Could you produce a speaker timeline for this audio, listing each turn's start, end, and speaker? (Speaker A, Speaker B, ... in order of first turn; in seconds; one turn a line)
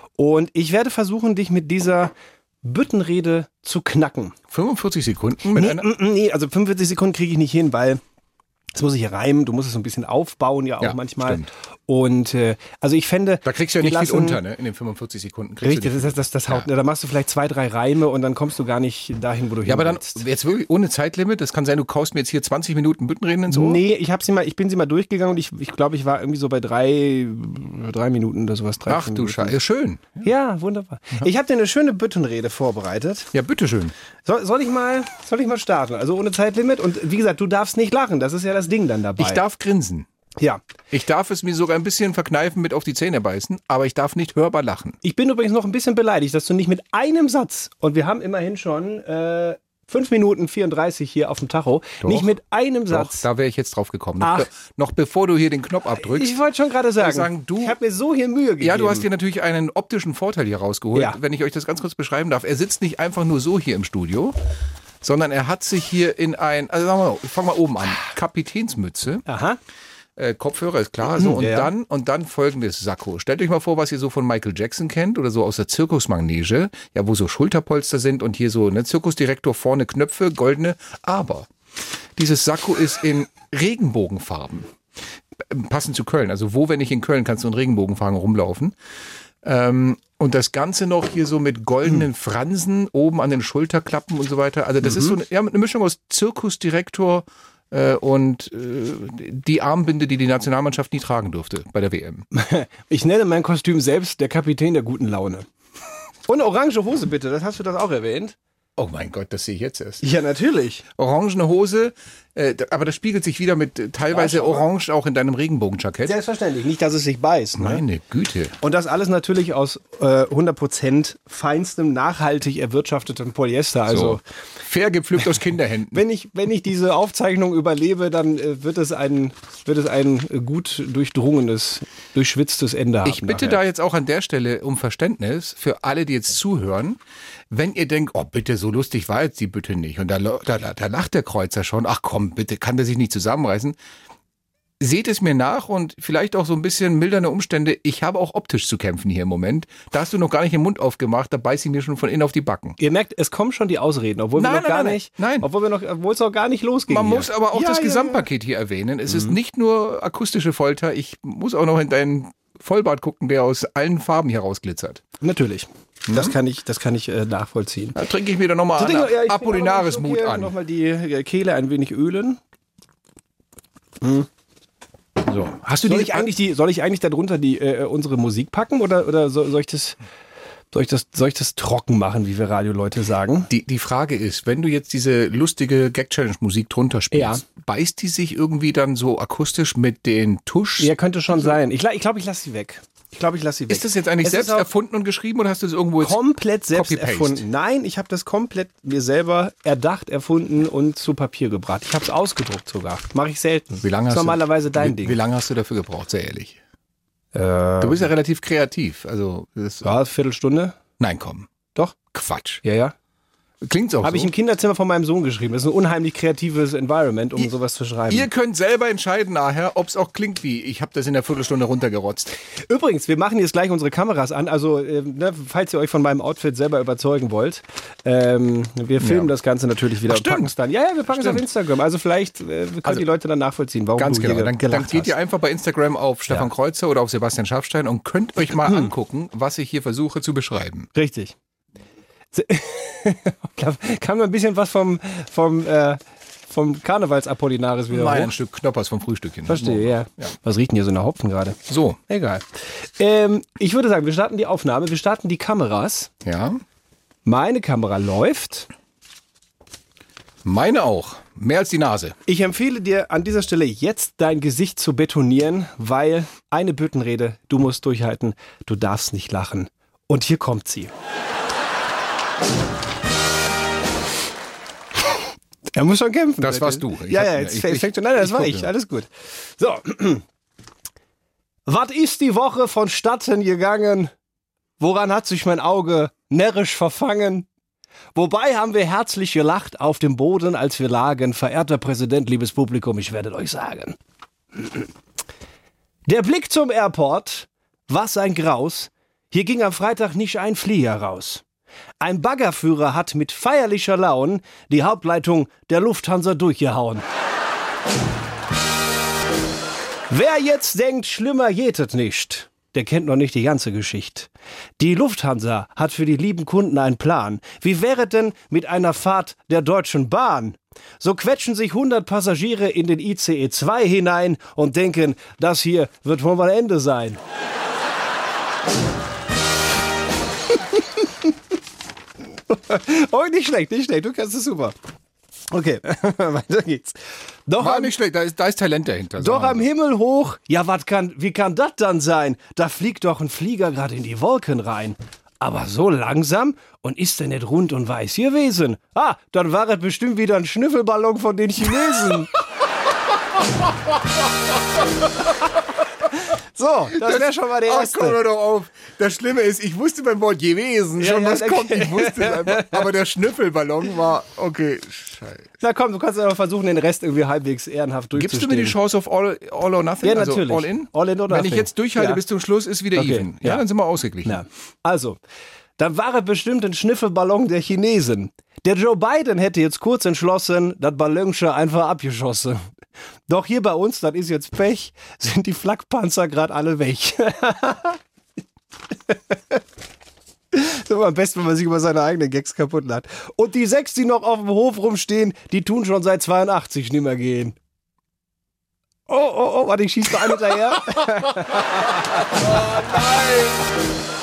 Speaker A: 0.2-4.4
Speaker B: 4.5-5.9
Speaker A: 5.5-8.0
Speaker A: 8.8-14.4
Speaker B: 10.8-11.5
Speaker B: 13.4-16.7
Speaker A: 15.6-20.2
Speaker B: 19.7-23.8
Speaker A: 23.5-29.6
Speaker B: 28.9-30.3
Speaker A: 30.2-33.3
Speaker B: 33.3-33.9
Speaker A: 34.2-39.4
Speaker B: 39.2-40.1
Speaker B: 40.9-45.0
Speaker A: 45.0-53.2
Speaker B: 52.0-52.3
Speaker B: 52.9-56.4
Speaker A: 54.2-54.5
Speaker A: 56.0-59.1
Speaker B: 57.0-57.8
Speaker B: 58.6-64.4
Speaker B: 65.0-69.2
Speaker A: 69.3-69.6
Speaker B: 70.2-81.5
Speaker A: 71.1-71.7
Speaker B: 82.2-84.7
Speaker B: 85.4-88.8
Speaker B: 89.4-102.3
Speaker A: 102.3-105.5
Speaker A: 106.3-108.4
Speaker B: 108.8-110.0
Speaker A: 110.0-110.8
Speaker B: 111.0-116.2
Speaker A: 114.1-114.7
Speaker A: 116.0-117.8
Speaker B: 117.6-118.5
Speaker A: 118.6-124.2
Speaker B: 123.9-126.0
Speaker A: 125.9-133.6
Speaker B: 133.0-143.8
Speaker B: 144.8-152.8
Speaker A: 152.8-158.2
Speaker B: 154.4-155.5
Speaker B: 156.9-165.0
Speaker A: 165.2-168.0
Speaker B: 166.1-166.4
Speaker B: 167.9-170.5
Speaker A: 168.8-172.4
Speaker A: 174.0-174.3
Speaker B: 175.2-176.3
Speaker A: 175.7-180.0
Speaker A: 180.7-183.5
Speaker B: 183.5-191.6
Speaker A: 187.1-187.4
Speaker A: 190.8-194.7
Speaker B: 193.7-196.2
Speaker A: 196.0-205.2
Speaker B: 196.7-197.4
Speaker B: 203.8-206.6
Speaker A: 207.3-208.1
Speaker B: 207.8-209.9
Speaker A: 209.8-210.8
Speaker B: 211.0-211.5
Speaker B: 212.1-212.6
Speaker A: 212.6-212.9
Speaker B: 213.6-214.3
Speaker A: 214.0-218.3
Speaker B: 218.1-222.3
Speaker A: 222.7-235.1
Speaker B: 229.0-229.3
Speaker B: 230.1-230.5
Speaker B: 231.1-231.5
Speaker B: 234.0-240.9
Speaker A: 238.6-238.9
Speaker A: 240.9-241.3
Speaker A: 242.3-248.3
Speaker B: 247.9-250.3
Speaker A: 249.5-256.1
Speaker B: 251.7-252.0
Speaker B: 256.2-256.6
Speaker A: 257.2-258.7
Speaker B: 260.4-262.2
Speaker A: 262.3-270.9
Speaker A: 275.7-280.2
Speaker B: 276.4-278.7
Speaker A: 281.7-284.1
Speaker A: 284.8-287.5
Speaker A: 288.1-294.0
Speaker A: 294.6-294.9
Speaker A: 296.1-301.4
Speaker A: 302.0-307.1
Speaker A: 310.1-327.2
Speaker A: 330.7-331.3
Speaker A: 332.5-334.8
Speaker A: 335.5-337.9
Speaker B: 337.6-339.6
Speaker A: 339.2-352.3
Speaker B: 353.4-355.4
Speaker A: 356.2-358.2
Speaker B: 356.9-365.5
Speaker A: 361.0-362.8
Speaker A: 365.6-368.8
Speaker B: 368.2-374.4
Speaker A: 370.0-372.2
Speaker A: 372.9-373.6
Speaker A: 374.2-375.2
Speaker A: 375.8-382.6
Speaker A: 383.3-388.0
Speaker A: 389.1-389.6
Speaker A: 390.5-397.6
Speaker A: 399.1-402.4
Speaker B: 400.5-403.9